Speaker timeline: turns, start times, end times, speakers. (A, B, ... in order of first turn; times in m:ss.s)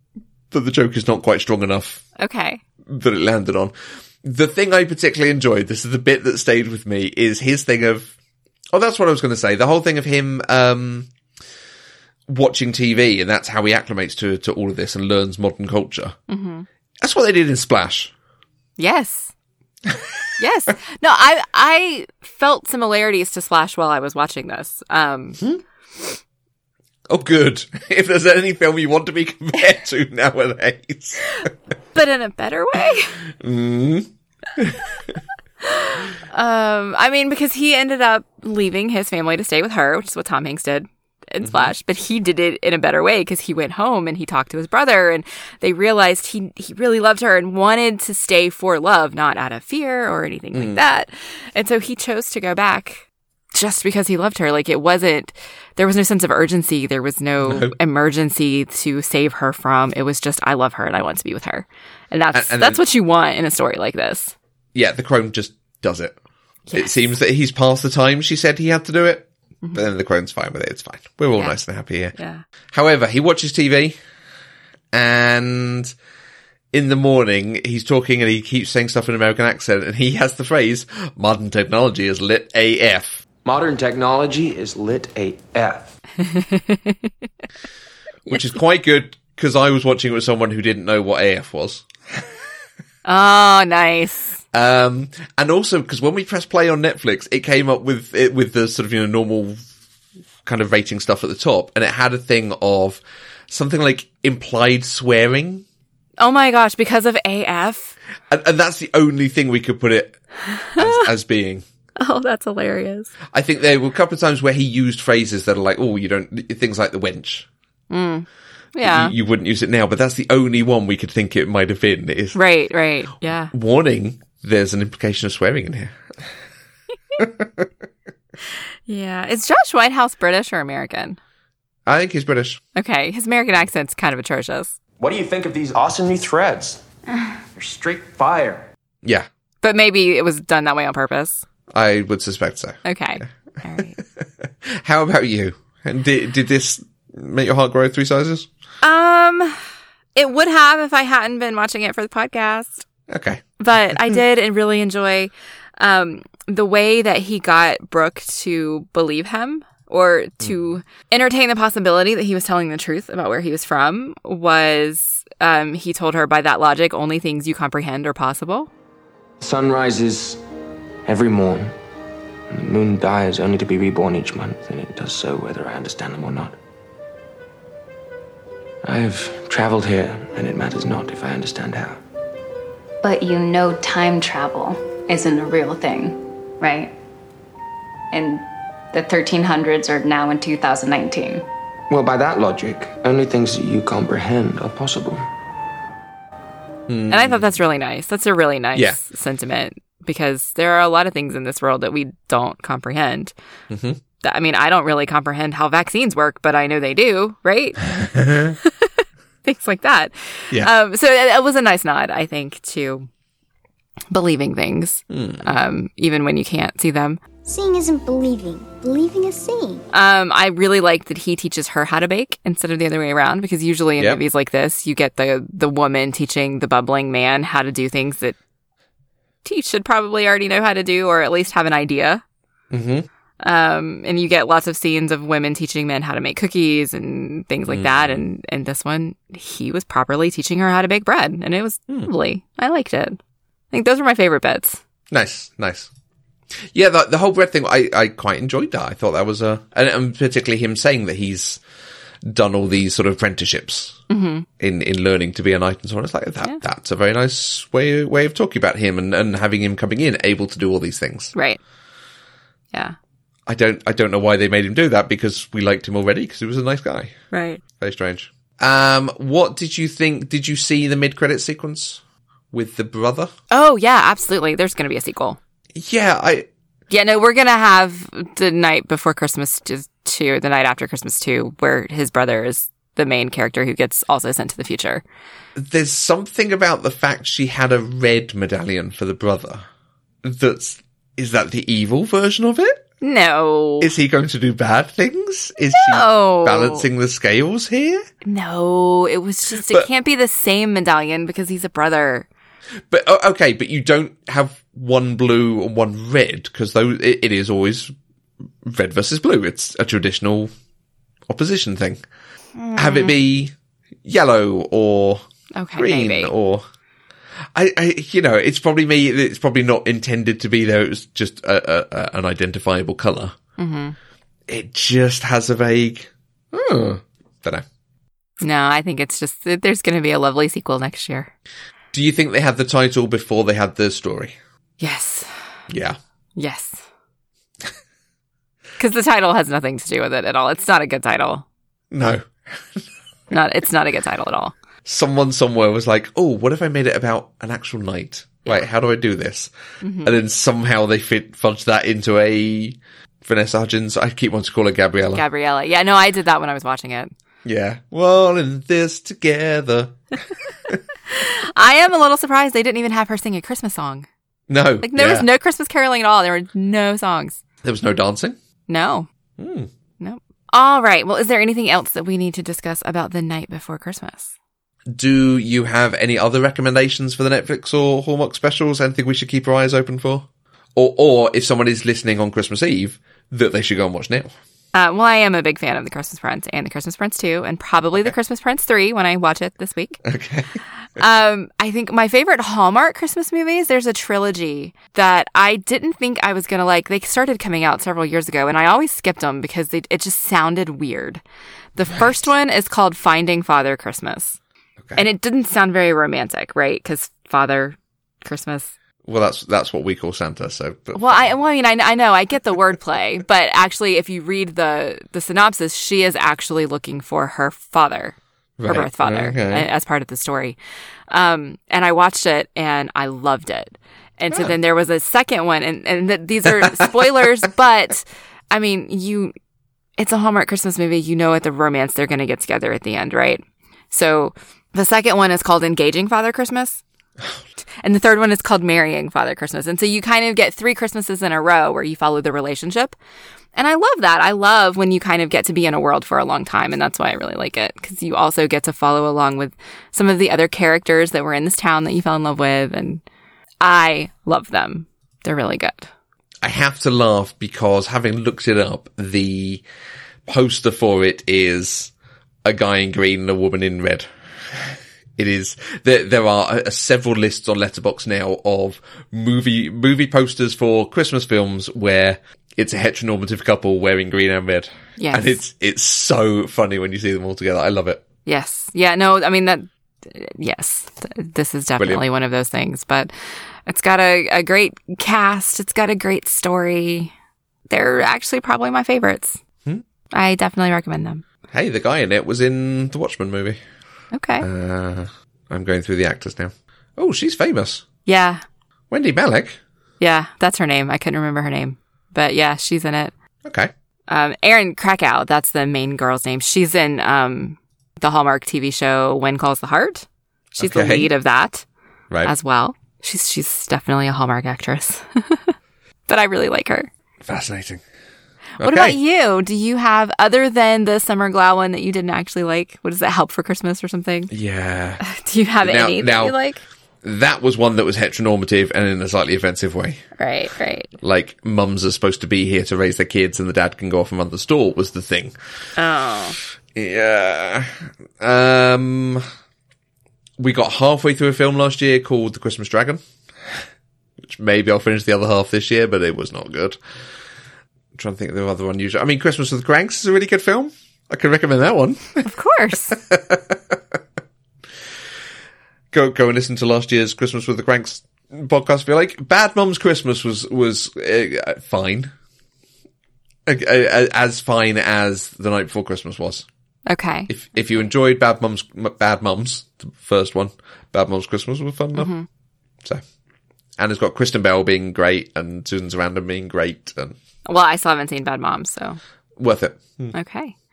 0:00.5-0:02.0 A
0:02.2-0:02.6 B
0:02.9-0:08.1 A
0:08.7-0:11.1 A
0:12.3-0:16.2 A
0:16.3-0:16.7 B
0:17.0-0:18.1 A
0:18.8-0:19.3 B
0:20.4-0:25.4 B
0:27.1-0:31.5 A
0:32.0-0:33.2 B
0:33.4-0:35.2 A
0:35.6-1:04.3 B
0:41.4-0:41.7 A
0:50.5-0:50.8 A
0:57.4-0:57.8 A
1:02.3-1:02.8 A
1:04.7-1:06.2 A
1:06.7-1:07.1 B
1:06.7-1:12.2 A
1:12.2-1:12.4 B
1:12.7-1:14.0 A
1:14.9-1:15.9 A
1:16.7-1:23.2 A
1:23.4-1:26.0 C
1:26.2-1:27.1 B
1:28.3-1:31.9 A
1:33.0-1:34.4 B
1:34.5-1:39.6 A
1:40.4-1:45.6 A
1:46.2-1:48.0 B
1:48.3-1:50.2 A
1:50.8-1:51.6 A
1:52.0-1:53.1 B
1:53.3-1:57.5 A
1:57.9-1:59.1 B
1:58.8-2:02.4 A
2:02.3-2:03.5 B
2:03.5-2:06.0 A
2:07.2-2:07.7 A
2:08.9-2:11.2 B
2:11.9-2:12.6 A
2:12.8-2:14.7 B
2:15.0-2:16.8 C
2:17.5-2:18.7 C
2:19.6-2:21.4 B
2:21.7-2:23.2 A
2:22.8-2:24.0 B
2:24.0-2:28.5 A
2:28.8-2:29.6 B
2:30.2-2:32.8 B
2:33.1-2:34.2 A
2:33.6-2:48.7 B
2:49.4-2:50.4 C
2:51.0-2:51.7 C
2:52.5-2:56.6 C
2:58.8-3:02.0 C
3:03.0-3:06.9 D
3:08.1-3:11.4 D
3:11.9-3:15.2 C
3:16.9-3:17.5 A
3:17.1-3:23.3 B
3:23.7-3:24.0 A
3:24.2-3:27.9 B
3:28.0-3:28.6 A
3:28.6-3:33.1 B
3:34.1-3:37.2 B
3:35.1-3:35.6 A
3:37.5-3:39.8 E
3:39.9-3:48.4 B
3:49.4-3:52.2 B
3:52.7-3:53.1 A
3:53.4-4:03.2 B
3:57.7-3:58.2 A
4:03.7-4:04.8 B
4:05.1-4:05.9 A
4:06.7-4:11.6 A
4:12.2-4:14.0 A
4:14.1-4:14.5 B
4:14.6-4:21.3 A
4:21.4-4:21.6 B
4:23.5-4:27.2 A
4:27.3-4:27.6 B
4:27.8-4:32.0 A
4:32.5-4:33.3 A
4:33.5-4:35.4 B
4:35.7-4:36.5 A
4:36.9-4:45.0 B
4:45.6-4:49.7 A
4:50.2-4:52.9 A
4:53.0-4:53.9 B
4:53.8-4:58.1 A
4:55.7-4:56.9 B
4:58.2-5:02.3 B
4:59.6-4:59.9 A
5:02.9-5:07.9 A
5:08.6-5:10.5 A
5:11.3-5:12.0 A
5:12.6-5:13.1 B
5:12.8-5:13.5 A
5:14.0-5:15.2 A
5:15.5-5:16.3 B
5:15.8-5:16.6 A
5:17.6-5:23.4 A
5:23.6-5:24.0 B
5:24.5-5:27.6 A
5:28.4-5:31.3 B
5:31.9-5:34.4 A
5:34.8-5:35.3 B
5:35.7-5:36.0 A
5:36.4-5:36.8 B
5:38.8-5:41.4 B
5:41.9-5:42.8 A
5:43.3-5:44.6 B
5:44.8-5:49.5 A
5:49.8-5:50.2 B
5:50.0-5:55.2 A
5:55.1-5:57.1 B
5:57.4-6:00.2 A
6:01.1-6:04.1 B
6:04.5-6:05.3 A
6:04.8-6:07.4 B
6:07.6-6:08.4 A
6:08.7-6:09.1 B
6:09.4-6:09.7 A
6:10.0-6:14.3 B
6:14.9-6:24.3 A
6:24.7-6:30.0 B
6:30.0-6:30.5 A
6:31.0-6:41.2 B
6:41.8-6:44.4 B
6:45.0-6:48.7 B
6:49.0-6:51.3 A
6:51.0-7:00.6 B
6:58.6-6:59.7 A
7:01.1-7:09.3 B
7:06.6-7:06.9 A
7:10.0-7:16.8 B
7:17.8-7:23.0 B
7:23.6-7:33.0 B
7:33.6-7:35.9 B
7:36.4-7:39.6 A
7:40.3-7:41.9 A
7:42.4-7:58.0 A
7:55.0-7:55.4 B
7:58.3-8:03.1 B
8:03.7-8:07.1 B
8:07.7-8:09.4 B
8:10.1-8:11.2 B
8:11.5-8:13.6 A
8:14.1-8:14.5 B
8:14.4-8:17.8 A
8:18.1-8:18.4 B
8:18.9-8:19.6 A
8:20.0-8:23.1 B
8:23.4-8:23.7 A
8:24.1-8:31.6 B
8:30.6-8:31.1 A
8:32.2-8:35.6 B
8:36.1-8:36.9 B
8:37.2-8:37.8 A
8:38.6-8:44.3 B
8:38.6-8:39.0 A
8:44.3-8:45.0 A
8:45.0-8:46.6 B
8:45.6-8:46.4 A
8:47.0-8:50.0 A
8:50.2-8:50.9 B
8:51.0-8:55.3 A
8:55.8-8:56.4 B
8:56.7-8:59.2 A
9:00.4-9:03.6 A
9:04.2-9:06.8 A
9:08.0-9:12.3 A
9:12.2-9:13.0 B
9:12.9-9:14.0 A
9:15.9-9:22.1 A
9:23.5-9:26.5 A
9:26.9-9:27.3 B
9:27.3-9:32.1 A
9:32.0-9:32.3 B
9:33.8-9:37.2 A
9:37.5-9:39.0 B
9:39.4-9:40.2 A
9:40.1-9:40.6 B